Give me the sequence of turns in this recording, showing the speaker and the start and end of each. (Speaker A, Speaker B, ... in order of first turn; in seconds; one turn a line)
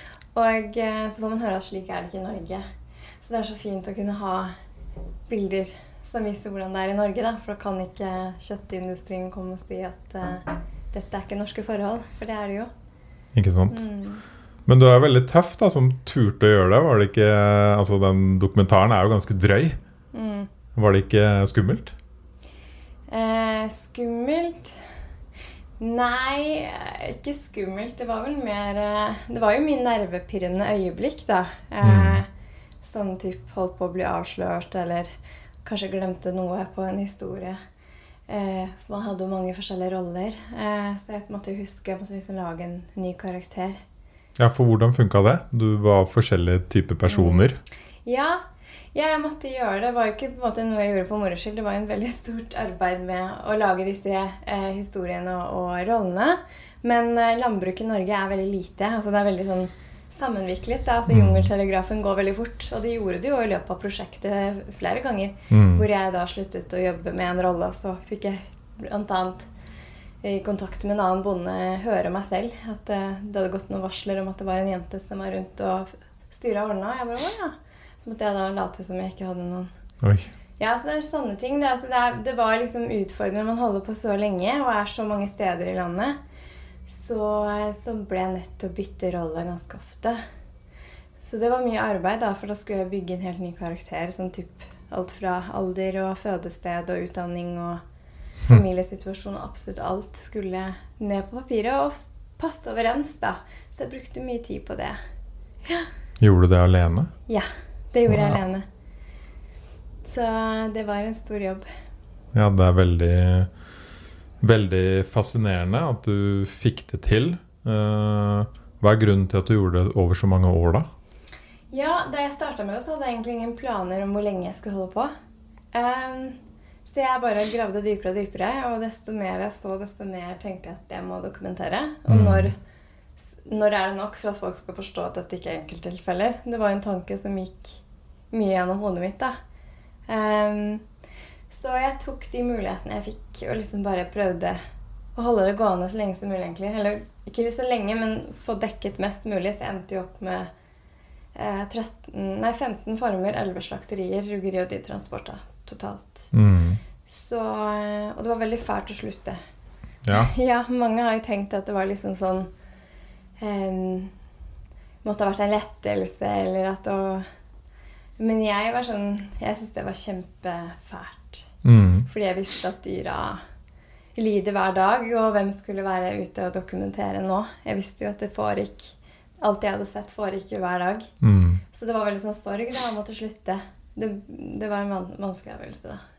Speaker A: 0.3-2.6
Speaker A: 3.2-4.5
Speaker A: 5.3-12.7
Speaker B: 13.3-13.9
Speaker A: 13.7-14.2
Speaker B: 14.7-19.8
Speaker A: 20.1-20.5
Speaker B: 20.7-21.9
Speaker A: 23.1-24.8
Speaker A: 25.8-32.3
Speaker B: 31.8-32.2
Speaker A: 32.8-35.1
Speaker A: 35.6-37.6
Speaker A: 38.3-43.8
Speaker B: 44.4-47.6
Speaker A: 47.0-47.5
Speaker A: 48.0-48.4
Speaker A: 48.9-69.5
Speaker B: 61.1-61.5
Speaker B: 65.5-65.8
Speaker A: 70.2-79.7
Speaker B: 80.0-80.3
Speaker A: 80.6-86.2
Speaker A: 86.9-90.2
Speaker A: 91.2-97.8
Speaker A: 98.5-105.0
Speaker B: 106.2-107.1
Speaker A: 107.3-108.6
Speaker B: 108.1-108.4
Speaker A: 110.0-111.7
Speaker B: 112.3-113.5
Speaker B: 114.4-120.9
Speaker A: 121.7-125.1
Speaker A: 125.7-132.6
Speaker B: 132.1-132.5
Speaker A: 133.2-139.3
Speaker A: 140.1-140.8
Speaker A: 141.5-144.6
Speaker A: 145.2-150.5
Speaker A: 151.3-156.3
Speaker B: 156.3-156.8
Speaker A: 157.1-159.4
Speaker B: 160.0-160.3
Speaker A: 160.1-162.5
Speaker A: 163.4-164.1
Speaker A: 165.0-167.2
Speaker A: 168.2-171.5
Speaker B: 171.6-172.1
Speaker A: 172.1-173.4
Speaker A: 174.2-181.1
Speaker B: 181.2-181.6
Speaker A: 181.7-186.0